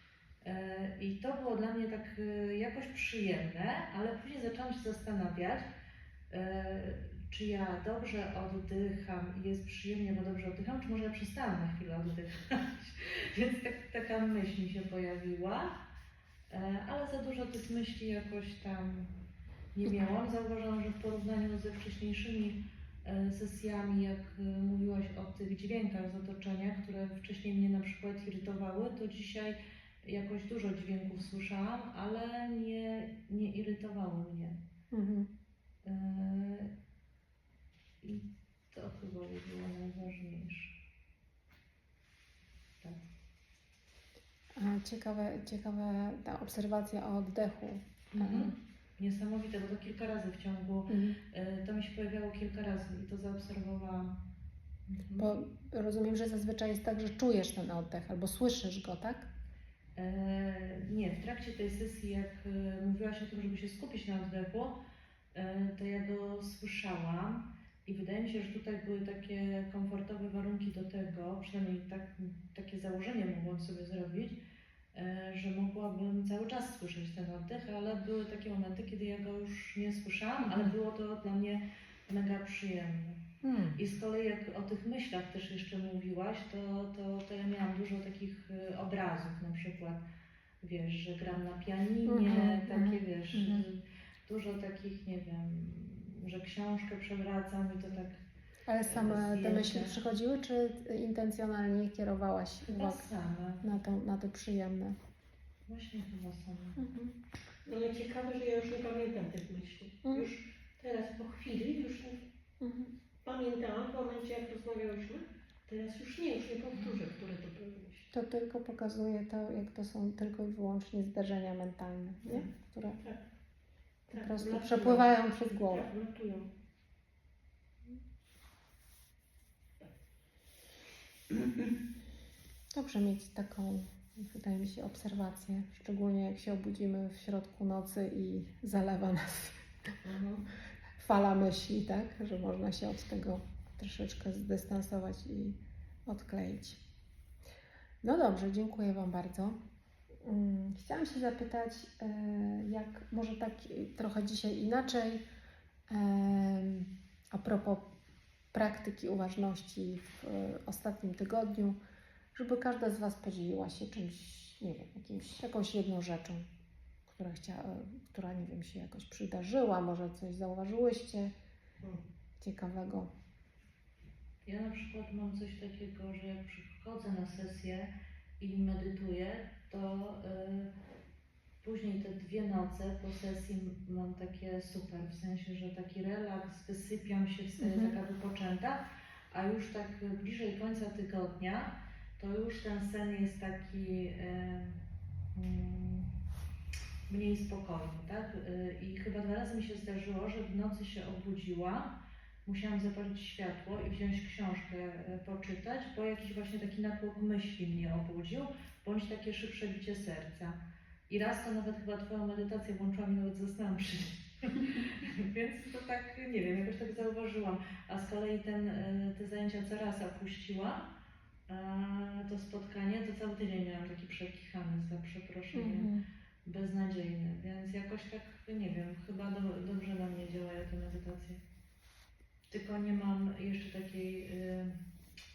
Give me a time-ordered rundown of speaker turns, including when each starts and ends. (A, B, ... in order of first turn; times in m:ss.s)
0:00.4-0:05.7 A
0:06.3-0:15.8 A
0:16.5-0:19.1 A
0:19.7-0:34.6 A
0:19.8-0:20.1 B
0:34.9-0:35.3 B
0:35.8-0:36.7 A
0:38.0-0:40.8 A
0:42.8-0:43.1 A
0:44.6-0:48.5 B
0:48.1-0:54.1 A
0:50.9-0:51.2 B
0:54.9-0:55.3 A
0:55.2-0:59.3 B
1:00.0-1:04.8 A
1:05.3-1:14.4 A
1:14.9-1:23.2 A
1:23.4-1:23.8 B
1:23.8-1:30.0 A
1:30.6-1:38.2 A
1:32.1-1:33.6 B
1:38.7-1:43.1 B
1:38.9-1:40.0 A
1:42.7-1:43.6 A
1:43.6-1:45.0 B
1:45.7-1:46.8 A
1:46.8-1:47.2 B
1:47.7-1:52.2 C
1:52.6-1:52.9 B
1:53.2-1:58.1 C
1:58.1-2:03.0 B
2:04.1-2:06.5 C
2:04.2-2:05.8 B
2:11.3-2:11.7 C
2:12.7-2:20.0 B
2:20.0-2:20.4 C
2:21.0-2:26.8 B
2:28.0-2:29.6 B
2:30.2-2:35.2 B
2:35.9-2:37.9 B
2:38.5-2:41.8 B
2:42.4-2:46.5 B
2:47.1-2:51.3 B
2:52.4-2:53.1 B
2:54.5-3:00.7 A
3:01.6-3:08.8 A
3:07.6-3:08.0 B
3:09.3-3:14.8 A
3:15.4-3:16.1 A
3:17.1-3:30.6 A
3:31.1-3:40.9 A
3:41.5-3:45.9 A
3:45.5-3:46.0 B
3:46.4-3:51.4 A
3:52.5-3:54.8 A